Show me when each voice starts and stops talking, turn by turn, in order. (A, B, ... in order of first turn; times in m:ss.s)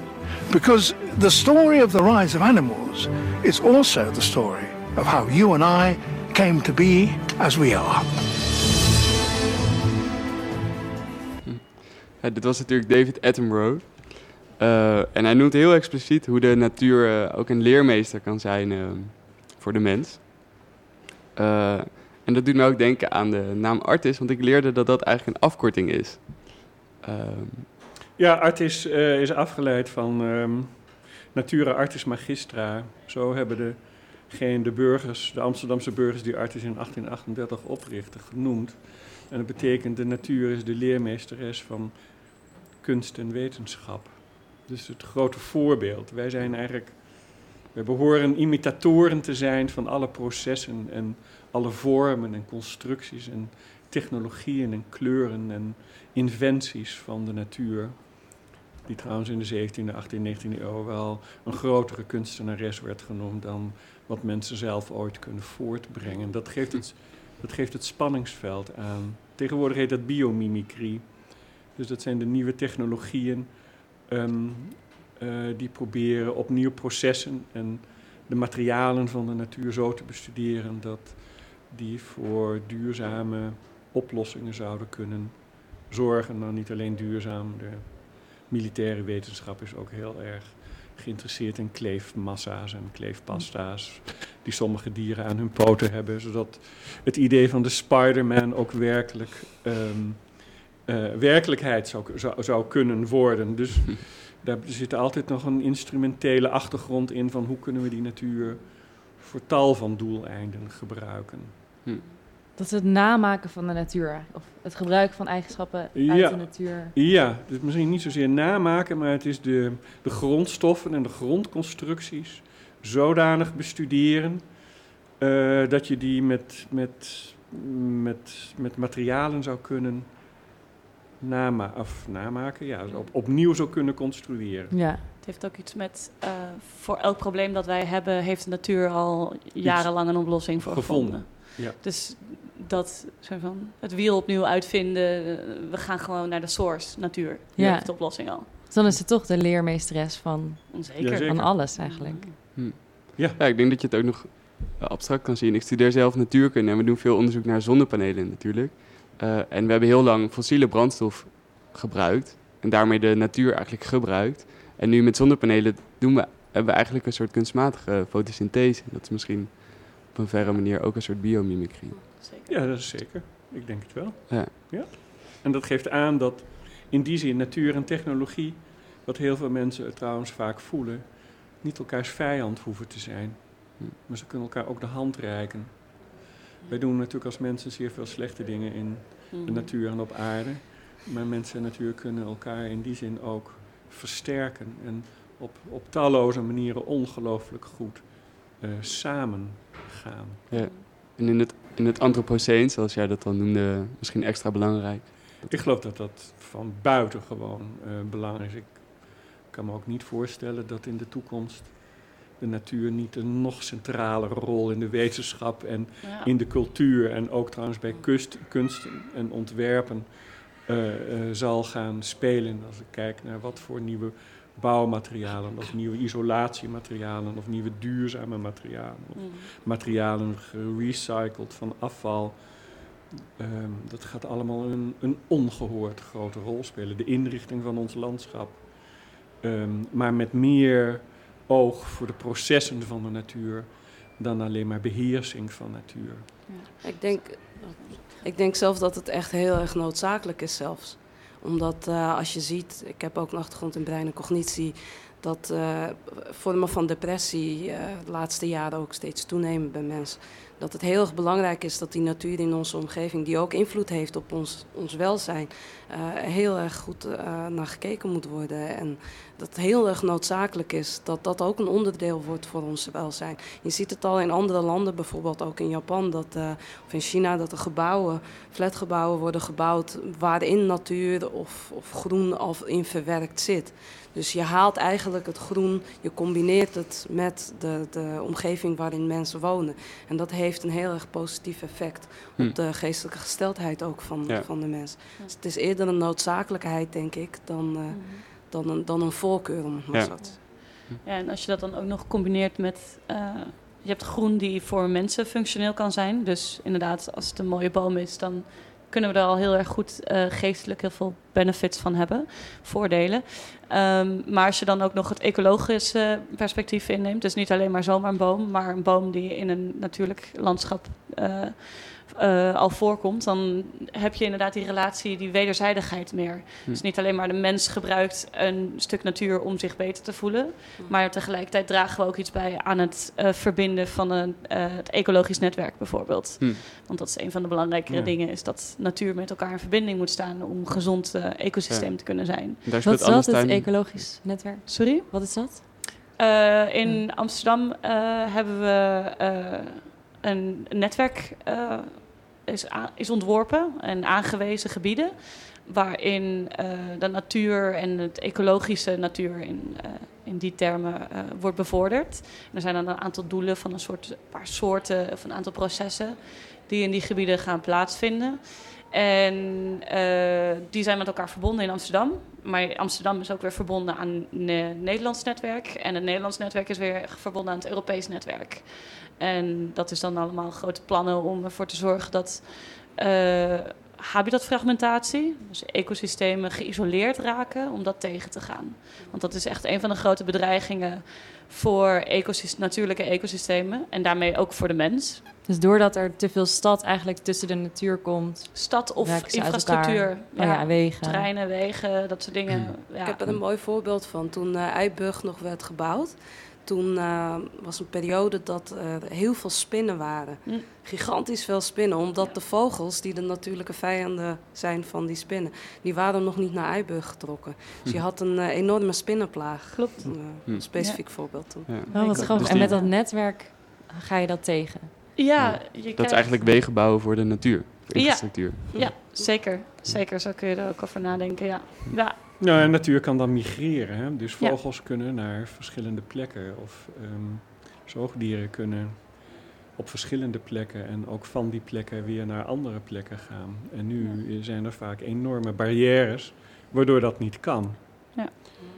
0:00.5-0:08.1 A
0:11.4-0:20.6 B
0:21.4-0:27.7 B
0:28.2-0:42.0 C
0:42.8-1:13.5 C
1:14.0-1:51.6 C
1:52.6-1:56.9 D
1:56.0-2:04.5 C
2:05.2-2:10.1 C
2:11.2-2:14.8 C
2:14.7-2:15.0 D
2:15.2-2:28.5 E
2:19.6-2:21.8 C
2:27.6-2:32.2 D
2:30.7-2:32.4 E
2:31.0-2:31.6 C
2:32.6-2:52.0 B
2:52.1-2:52.6 E
2:52.5-3:20.4 C
3:09.3-3:09.7 E
3:20.5-3:25.5 B
3:20.5-3:20.8 E
3:25.5-3:52.7 C
3:36.0-3:36.3 E
3:49.2-3:49.5 E
3:53.4-4:06.5 C
4:06.5-4:08.2 E
4:06.8-5:00.4 F
4:57.9-4:58.2 E
4:59.9-5:01.0 B
5:00.2-5:42.6 E
5:37.9-5:38.1 C
5:41.7-5:44.1 B
5:42.8-5:45.6 D
5:44.7-5:45.1 E
5:46.2-6:35.2 E
6:35.5-6:41.3 D
6:38.5-6:43.2 E
6:43.0-7:02.7 F
6:59.7-7:02.9 E
7:00.1-7:02.7 B
7:01.9-7:04.9 D
7:05.2-7:06.5 E
7:05.4-7:09.0 B
7:08.0-7:12.2 E
7:08.7-7:09.4 F
7:12.4-7:28.4 C